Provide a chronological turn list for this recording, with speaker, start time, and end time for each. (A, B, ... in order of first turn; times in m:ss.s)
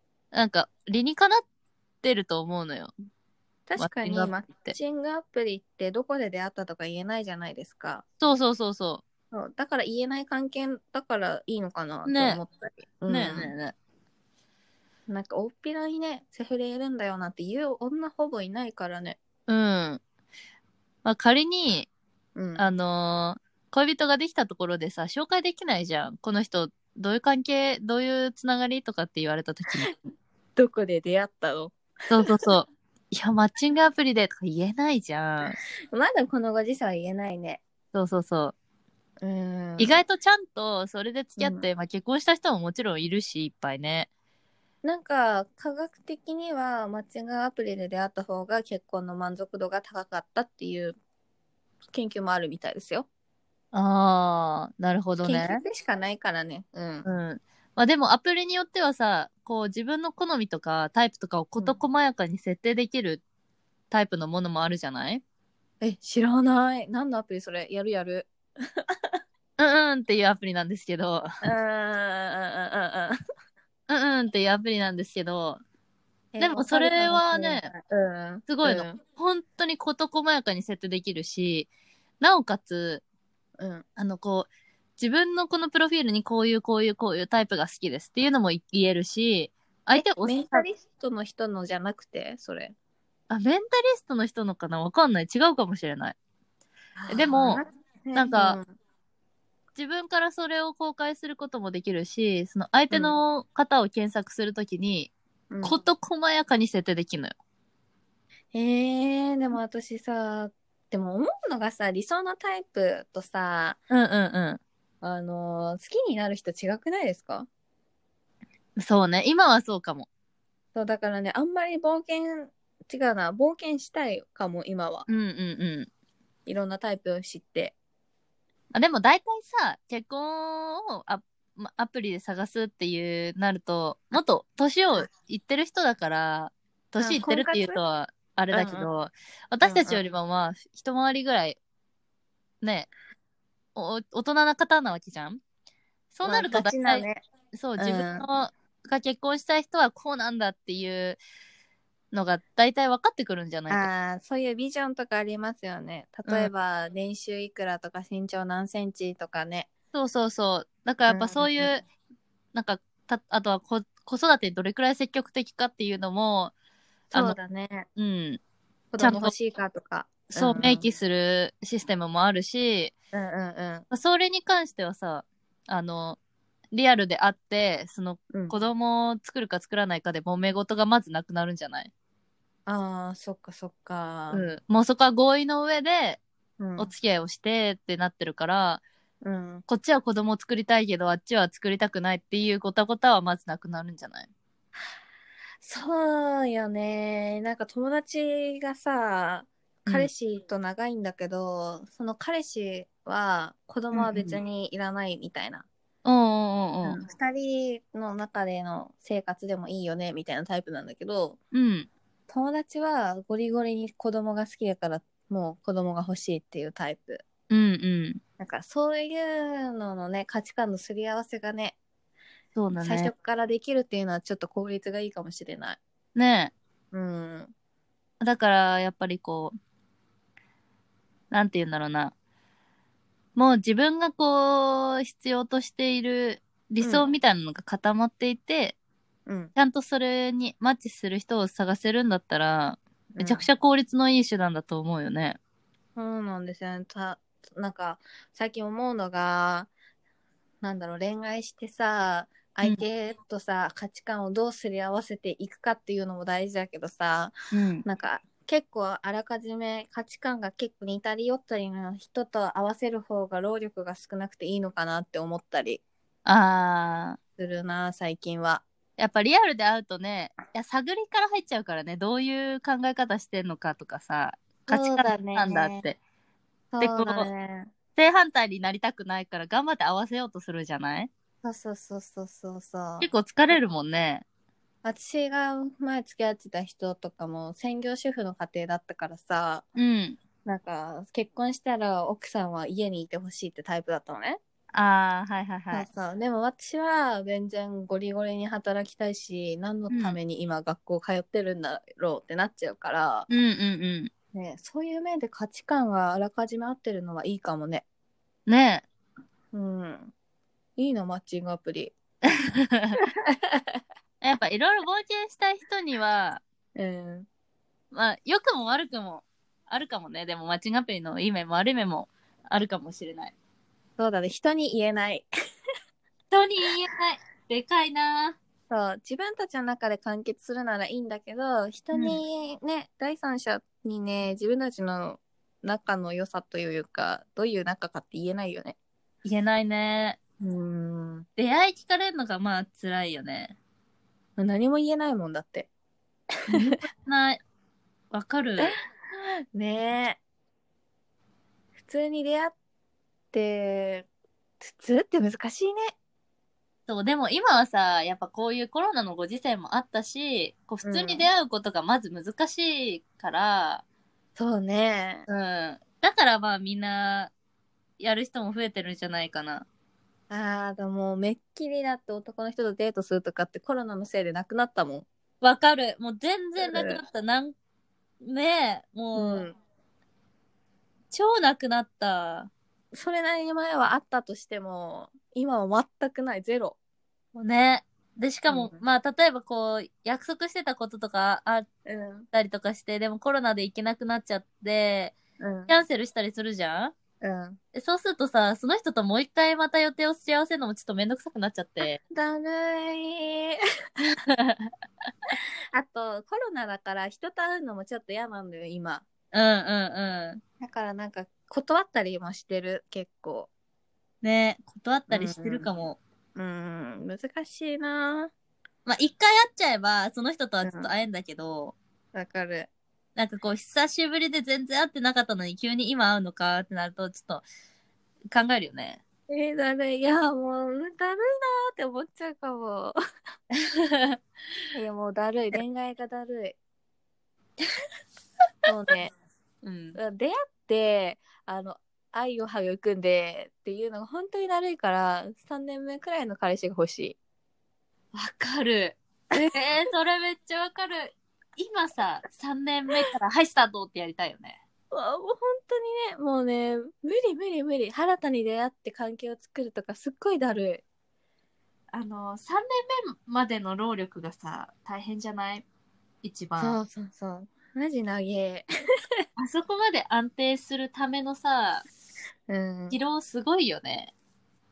0:00.3-0:01.4 A
0:02.0-0:02.9 A
0:03.7-0:08.0 B
0:03.8-0:04.8 A
0:08.2-0:09.0 A
0:09.3-0:13.5 B
0:12.1-0:12.4 A
0:13.1-0:13.8 A
0:15.1-0:19.2 B
0:19.5-0:20.0 A
0:21.0-0:21.9 A
0:22.4-0:22.7 B
0:22.6-0:30.1 A
0:30.6-0:31.8 B
0:32.1-0:35.6 A
0:35.9-0:37.6 B
0:37.9-0:38.6 A
0:39.2-0:40.0 B
0:39.8-0:44.1 A
0:41.4-0:41.7 B
0:44.8-0:51.0 B
0:51.9-0:53.1 B
0:53.7-0:55.6 A
0:55.2-0:57.1 B
0:57.0-1:03.2 A
1:03.9-1:05.2 A
1:05.8-1:09.2 B
1:09.6-1:11.3 A
1:11.4-1:13.2 B
1:13.9-1:15.6 A
1:16.3-1:19.0 B
1:16.4-1:17.7 A
1:18.5-1:23.0 A
1:23.6-1:23.8 B
1:24.0-1:30.7 A
1:30.0-1:32.7 B
1:33.3-1:36.2 A
1:37.0-1:38.7 B
1:37.1-1:37.6 A
1:38.2-1:38.6 A
1:39.8-1:47.4 A
1:45.5-1:45.8 B
1:48.5-1:53.8 B
1:53.9-1:54.6 A
1:55.0-1:57.5 B
1:58.8-2:00.1 A
2:00.8-2:05.1 B
2:05.1-2:05.9 A
2:06.5-2:07.8 B
2:08.7-2:21.6 A
2:17.0-2:17.8 B
2:18.5-2:18.9 B
2:19.6-2:20.0 B
2:22.6-2:22.9 A
2:23.8-2:25.4 A
2:26.1-2:31.2 A
2:26.2-2:27.2 B
2:27.8-2:28.3 B
2:32.1-2:33.9 A
2:33.7-2:39.7 B
2:39.9-2:41.8 A
2:41.1-2:41.7 B
2:42.5-2:46.5 A
2:47.1-2:47.4 A
2:47.1-2:47.9 B
2:48.0-2:48.4 A
2:48.9-2:50.9 B
2:49.0-2:49.3 A
2:50.3-2:52.9 A
2:53.1-2:53.9 B
2:53.9-2:56.2 A
2:56.7-3:01.9 A
3:02.7-3:04.5 B
3:04.3-3:06.2 A
3:06.6-3:06.9 B
3:06.8-3:08.8 A
3:09.2-3:09.6 B
3:09.7-3:14.3 A
3:15.6-3:25.7 B
3:23.9-3:24.4 A
3:26.0-3:27.0 A
3:26.8-3:31.4 B
3:31.5-3:31.9 A
3:32.3-3:37.2 B
3:37.5-3:38.2 A
3:38.4-3:41.8 B
3:42.6-3:43.1 A
3:42.8-3:45.8 B
3:46.2-3:46.5 A
3:46.9-3:47.5 B
3:48.2-3:49.6 A
3:51.3-3:52.1 A
3:53.4-3:58.8 A
3:56.8-3:57.1 B
3:59.3-3:59.5 B
3:59.6-4:05.4 A
4:03.1-4:03.4 B
4:06.0-4:09.7 B
4:10.6-4:17.3 B
4:17.5-4:17.8 A
4:17.8-4:25.8 B
4:26.3-4:27.2 A
4:27.4-4:28.6 B
4:29.0-4:36.0 A
4:34.7-4:35.8 B
4:36.7-4:37.7 B
4:36.8-4:37.3 A
4:38.0-4:41.1 A
4:41.4-4:43.1 B
4:43.0-4:44.2 A
4:44.8-4:49.7 B
4:49.8-4:50.2 A
4:50.4-4:54.4 B
4:54.7-4:55.9 A
4:55.7-5:03.3 B
4:59.9-5:00.2 A
5:03.3-5:04.1 A
5:04.3-5:07.8 B
5:08.5-5:08.8 A
5:09.5-5:10.1 B
5:10.8-5:12.0 B
5:12.4-5:13.0 A
5:13.0-5:13.8 B
5:14.2-5:16.4 A
5:16.8-5:17.3 B
5:17.9-5:23.4 A
5:24.0-5:25.3 B
5:26.3-5:28.4 A
5:28.7-5:38.8 B
5:31.9-5:32.2 A
5:39.2-5:40.2 A
5:40.4-5:41.3 B
5:41.4-5:43.6 A
5:44.4-5:45.7 B
5:46.5-5:47.4 A
5:46.5-5:46.8 B
5:48.1-5:48.8 A
5:48.6-5:50.2 B
5:51.8-5:52.5 B
5:53.3-5:54.1 B
5:54.6-5:55.9 B
5:56.9-6:03.8 A
6:00.8-6:01.3 B
6:04.4-6:05.2 B
6:05.3-6:07.3 A
6:08.0-6:09.7 A
6:10.3-6:15.1 B
6:15.4-6:17.6 A
6:16.6-6:17.0 B
6:18.2-6:19.5 A
6:19.2-6:19.6 B
6:21.1-6:22.5 A
6:22.9-6:26.8 B
6:27.4-6:31.7 A
6:28.5-6:28.8 B
6:31.9-6:32.3 B
6:32.3-6:35.2 A
6:35.4-6:35.7 B
6:35.7-6:36.9 A
6:37.2-6:37.6 B
6:37.7-6:42.0 A
6:42.1-6:43.6 B
6:44.0-6:44.7 A
6:45.7-6:49.0 B
6:49.3-6:50.4 A
6:50.6-6:53.5 B
6:54.2-6:56.0 A
6:55.1-6:55.7 B
6:56.4-6:58.3 B
6:58.9-7:01.8 A
7:00.6-7:00.9 B
7:02.1-7:02.7 B
7:03.2-7:07.4 A
7:08.3-7:09.0 A
7:09.3-7:13.0 B
7:13.6-7:14.2 A
7:14.7-7:16.6 B
7:18.7-7:19.1 B
7:19.6-7:20.0 A
7:20.0-7:27.2 B
7:28.1-7:34.6 A
7:29.3-7:29.6 B
7:34.9-7:40.8 B
7:41.9-7:45.6 A
7:46.2-7:46.8 A
7:46.6-7:48.7 B
7:49.4-7:51.9 A
7:52.5-7:53.0 B
7:52.9-7:54.1 A